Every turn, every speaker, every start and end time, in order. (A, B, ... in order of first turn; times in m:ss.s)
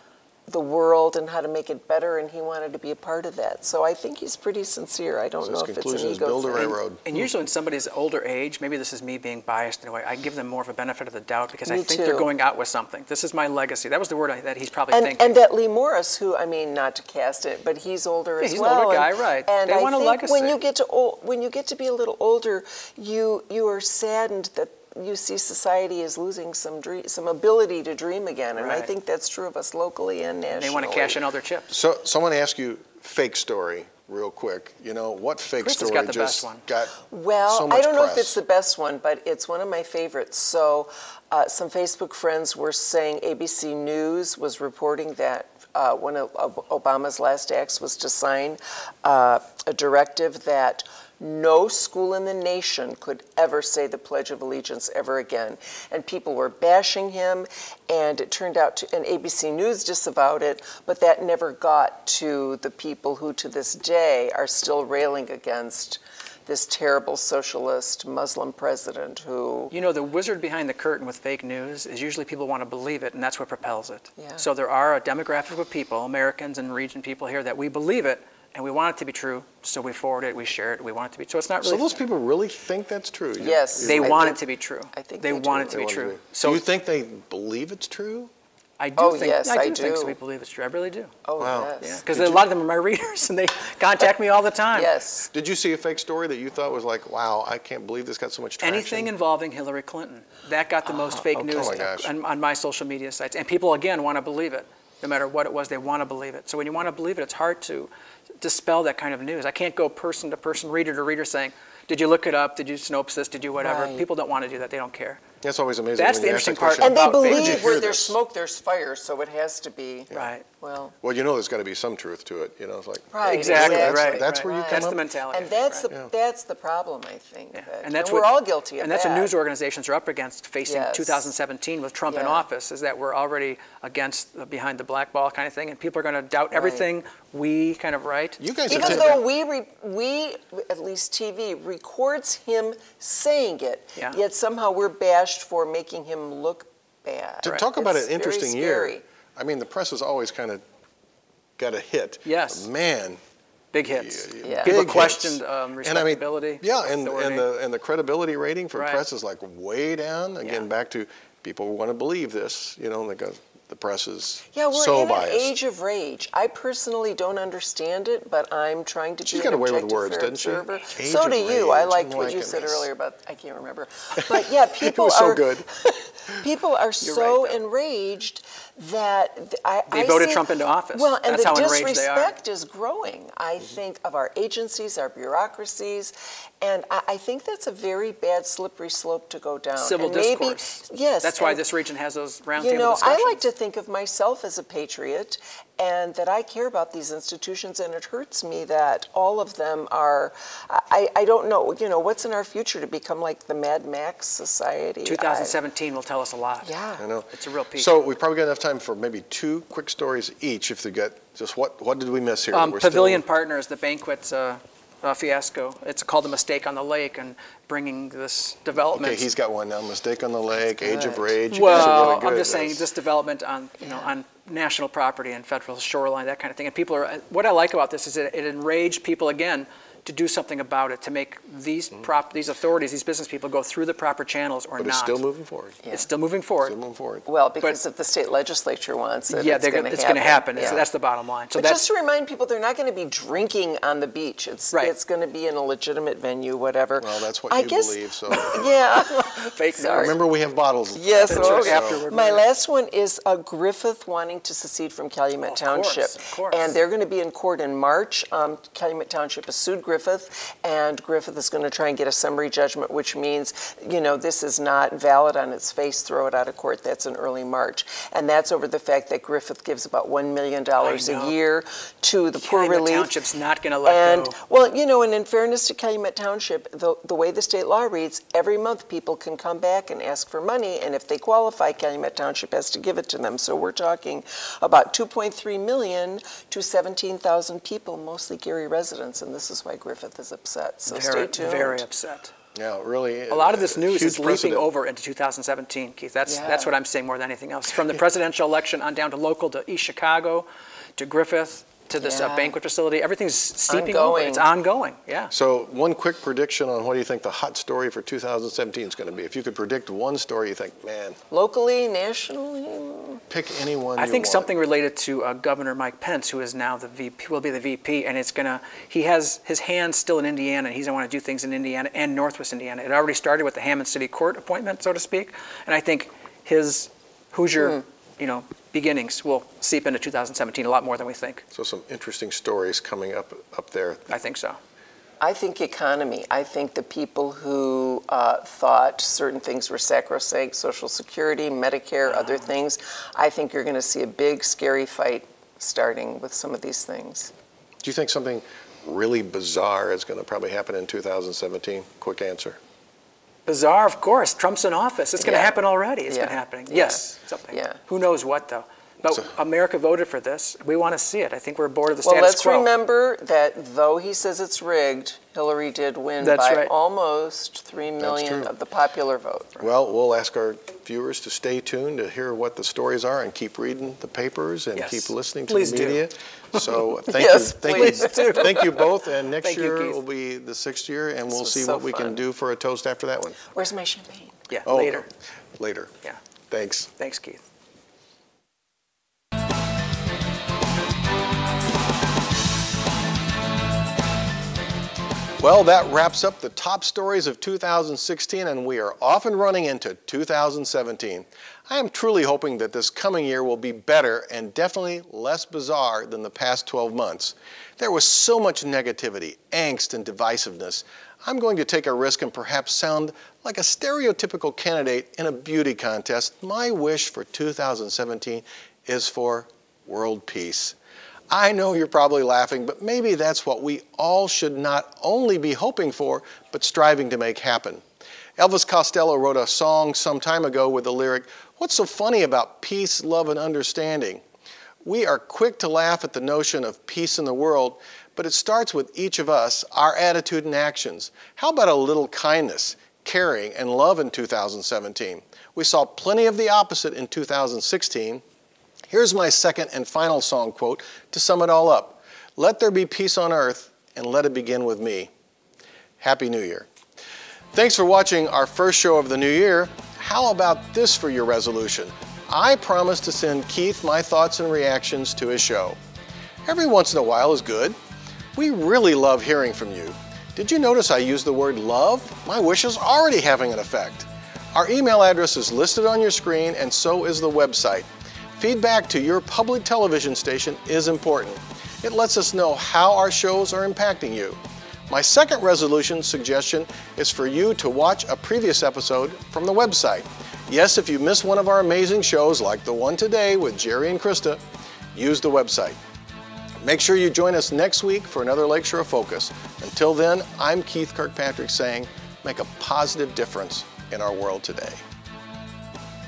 0:00.5-0:06.8 A
0:05.4-0:07.0 B
0:07.0-0:15.4 C
0:11.6-0:12.3 A
0:14.9-0:31.2 A
0:18.4-0:20.6 C
0:28.5-0:28.9 C
0:30.5-0:31.7 C
0:31.7-0:36.9 B
0:35.6-0:36.6 C
0:37.1-1:09.7 A
0:37.5-0:38.4 B
1:09.7-1:22.0 C
1:14.2-1:14.4 A
1:21.6-1:24.2 B
1:23.4-1:25.9 A
1:23.8-1:26.6 C
1:25.7-1:28.3 B
1:28.8-1:31.1 C
1:29.0-1:30.2 A
1:31.2-1:32.0 A
1:31.4-1:32.4 B
1:31.8-1:34.9 C
1:34.7-1:35.3 A
1:35.3-1:39.1 B
1:38.6-1:55.2 C
1:41.3-1:42.1 B
1:53.6-1:54.0 A
1:55.4-1:58.2 B
1:56.0-1:57.8 C
1:56.8-2:00.9 A
2:00.1-2:00.4 C
2:01.0-2:05.0 B
2:03.1-2:09.3 A
2:03.2-2:05.9 C
2:07.5-2:19.2 C
2:10.6-2:11.3 A
2:12.1-2:12.4 A
2:16.5-2:16.9 A
2:18.4-2:19.2 B
2:18.7-2:29.0 A
2:27.4-2:30.6 B
2:31.6-2:33.2 B
2:32.2-2:32.7 C
2:33.7-2:37.5 C
2:33.8-2:45.5 B
2:34.4-2:35.0 A
2:38.7-2:39.0 C
2:44.5-3:11.6 A
2:49.2-2:52.9 B
2:54.2-2:55.7 B
2:57.0-2:57.6 C
2:59.9-3:02.3 C
3:09.8-3:13.4 C
3:12.6-3:25.5 A
3:25.0-3:26.7 C
3:26.6-3:27.1 A
3:27.0-3:33.2 B
3:27.3-3:28.0 C
3:32.5-3:39.3 C
3:38.9-3:42.8 B
3:40.7-3:42.1 A
3:41.5-3:55.2 C
3:43.8-3:44.2 A
3:54.8-3:55.8 B
3:55.9-3:56.8 C
3:56.6-3:57.2 B
3:57.2-4:00.8 A
3:59.3-4:01.8 C
4:00.6-4:00.8 B
4:01.5-4:10.2 A
4:07.0-4:08.7 B
4:09.1-4:10.2 C
4:09.9-4:12.0 B
4:10.9-4:33.2 A
4:11.2-4:12.4 C
4:15.4-4:16.8 C
4:30.8-4:31.4 C
4:32.3-4:34.4 C
4:33.8-4:51.8 A
4:50.9-4:52.3 C
4:52.5-4:54.7 B
4:53.3-5:05.3 C
4:56.3-4:56.7 A
5:02.0-5:02.5 A
5:03.7-5:04.5 A
5:05.3-5:11.2 B
5:11.3-5:13.2 A
5:13.3-5:14.5 B
5:14.0-5:31.4 C
5:31.5-5:34.1 B
5:34.1-5:34.6 C
5:35.2-5:47.3 A
5:42.0-5:42.5 C
5:47.8-5:52.6 B
5:53.4-6:02.7 C
5:55.2-5:57.8 A
6:02.0-6:09.7 A
6:06.2-6:06.7 C
6:08.0-6:08.5 B
6:09.6-6:23.4 B
6:14.7-6:16.6 C
6:17.1-6:18.3 A
6:17.6-6:20.0 C
6:21.3-6:22.2 A
6:23.5-6:24.4 A
6:24.5-6:25.1 C
6:24.6-6:25.9 B
6:26.5-6:26.9 B
6:27.0-6:27.4 C
6:35.4-7:00.8 B
7:01.3-7:07.8 B
7:08.4-7:14.2 B
7:14.8-7:28.2 B
7:28.9-7:35.1 B
7:36.0-7:36.7 B
7:37.5-7:45.8 B
7:46.4-7:47.8 B
7:48.3-8:14.4 B
8:14.9-8:15.8 B
8:16.6-8:24.8 B